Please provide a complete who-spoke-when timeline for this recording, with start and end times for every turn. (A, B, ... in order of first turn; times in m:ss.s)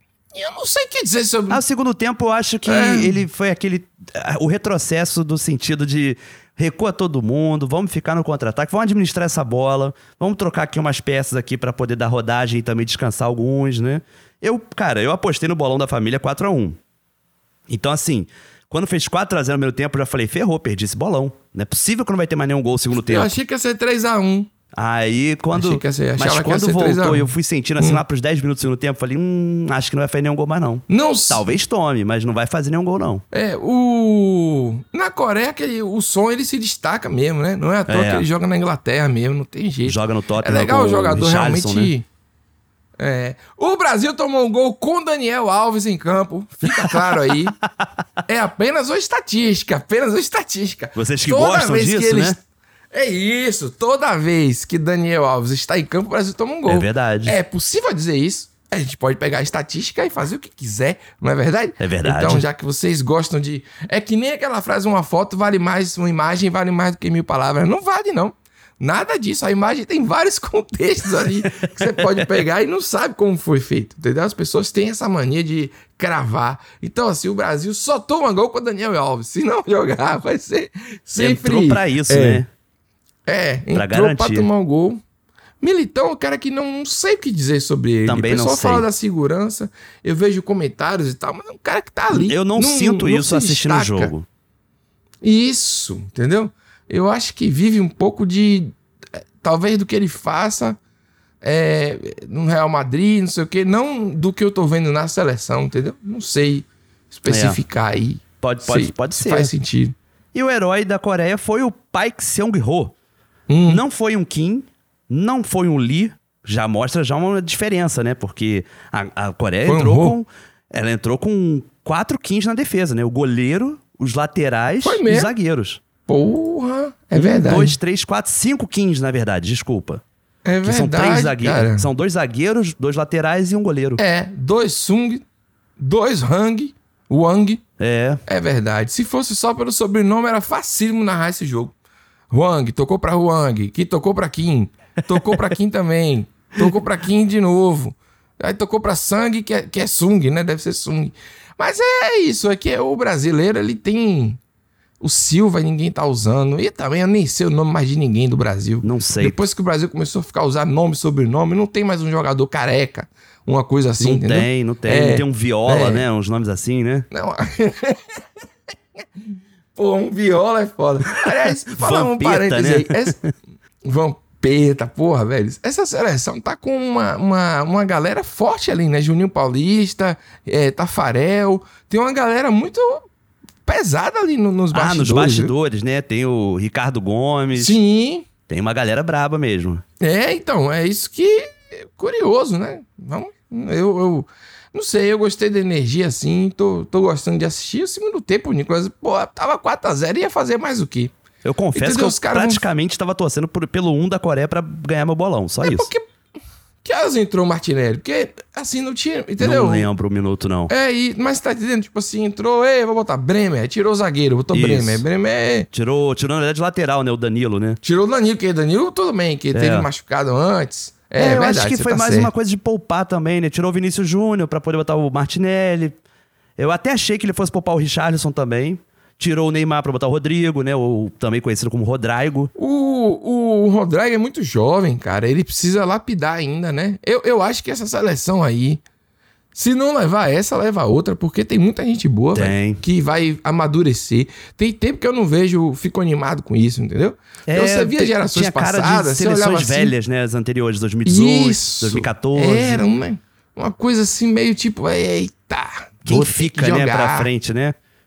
0:00.3-0:01.6 A
0:01.5-0:16.8 B
0:02.6-0:03.2 A
0:17.7-0:23.3 B
0:23.0-0:24.5 A
0:24.7-0:33.2 B
0:25.5-0:28.0 A
0:30.9-0:31.4 A
0:33.3-0:42.0 A
0:37.9-0:38.2 B
0:39.8-0:41.9 B
0:43.0-0:47.6 A
0:46.7-0:47.8 B
0:48.3-0:52.4 A
0:50.9-0:52.4 B
0:52.9-1:22.4 A
0:56.7-0:57.4 B
1:01.8-1:02.4 B
1:11.5-1:12.2 B
1:21.2-1:22.5 B
1:23.2-1:25.0 A
1:23.7-1:24.5 B
1:25.6-1:34.1 A
1:28.0-1:28.8 B
1:32.1-1:34.2 B
1:35.2-1:38.7 A
1:39.4-1:40.8 A
1:41.4-1:49.9 A
1:47.3-1:47.6 B
1:48.4-1:49.5 B
1:50.3-1:52.9 B
1:53.5-1:53.8 A
1:53.7-2:05.8 B
1:59.6-2:00.1 A
2:04.8-2:05.3 A
2:06.1-2:07.8 A
2:07.1-2:10.0 B
2:10.4-2:11.8 A
2:10.6-2:14.0 B
2:14.0-2:15.2 A
2:15.8-2:17.6 A
2:17.8-2:18.2 B
2:18.3-2:21.7 A
2:22.3-2:34.4 A
2:35.0-2:46.0 A
2:38.8-2:39.4 B
2:44.0-2:47.1 B
2:47.1-2:48.2 A
2:49.7-2:53.2 A
2:51.7-2:53.3 B
2:53.8-3:03.0 A
3:03.6-3:05.5 A
3:04.7-3:07.8 B
3:07.6-3:08.3 A
3:08.5-3:09.8 B
3:10.0-3:21.1 A
3:21.4-3:25.9 B
3:21.7-3:22.6 A
3:25.6-3:26.0 A
3:26.8-3:29.9 A
3:29.4-3:30.7 B
3:30.7-3:35.7 A
3:34.5-3:35.0 B
3:35.7-3:37.8 B
3:37.8-3:42.3 A
3:39.5-3:39.9 B
3:41.2-3:46.0 B
3:46.6-3:52.5 B
3:52.6-3:58.8 A
3:59.5-4:09.9 A
4:02.3-4:02.8 B
4:07.4-4:12.8 B
4:11.0-4:17.3 A
4:16.0-4:17.7 B